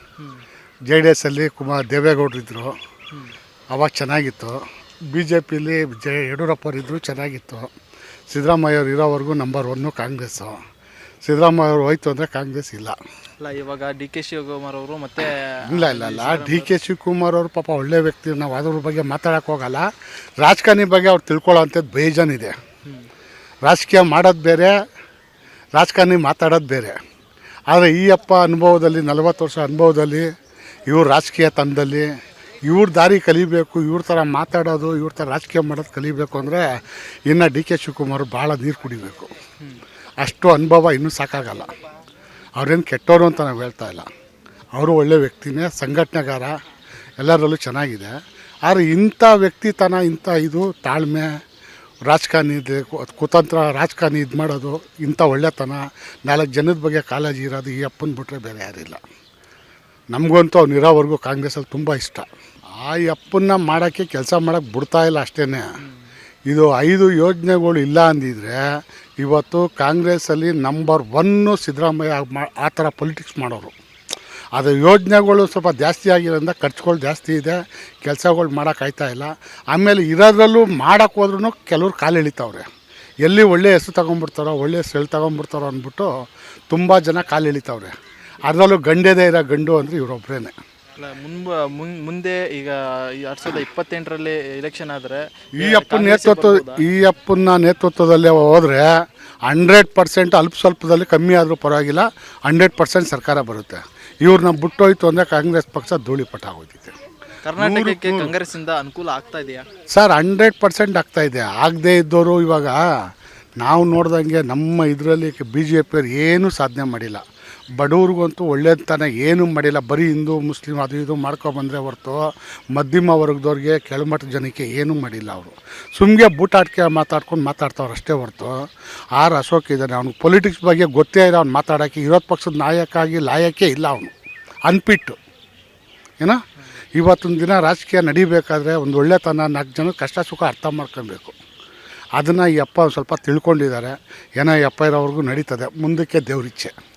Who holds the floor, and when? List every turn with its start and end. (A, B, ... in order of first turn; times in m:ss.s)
0:00.9-0:02.8 A
0:03.7-0:07.7 A
0:08.3-0:10.6 A
0:11.2-0:13.0 A
0:13.4-0:16.7 B
0:15.7-0:19.9 A
0:20.4-0:22.5 A
0:23.6-0:24.8 A
0:25.8-0:27.0 A
0:27.7-0:30.3 A
0:30.9-0:32.1 A
0:32.7-0:36.8 A
0:37.3-0:39.3 A
0:40.2-0:41.7 A
0:42.6-0:44.1 A
0:44.8-0:46.5 A
0:47.2-0:48.1 A
0:48.6-0:51.3 A
0:52.1-0:59.0 A
1:00.1-1:02.3 A
1:02.8-1:05.7 A
1:06.5-1:08.6 A
1:09.2-1:13.8 A
1:14.6-1:22.7 A
1:23.2-1:26.1 A
1:26.7-1:30.5 A
1:31.0-1:36.8 B
1:35.6-1:38.9 A
1:39.5-1:46.9 A
1:47.4-1:49.7 B
1:47.6-1:48.3 A
1:49.9-1:52.8 A
1:53.6-1:57.2 A
1:57.8-2:14.1 A
2:14.7-2:15.2 A
2:17.0-2:21.4 A
2:22.2-2:26.7 A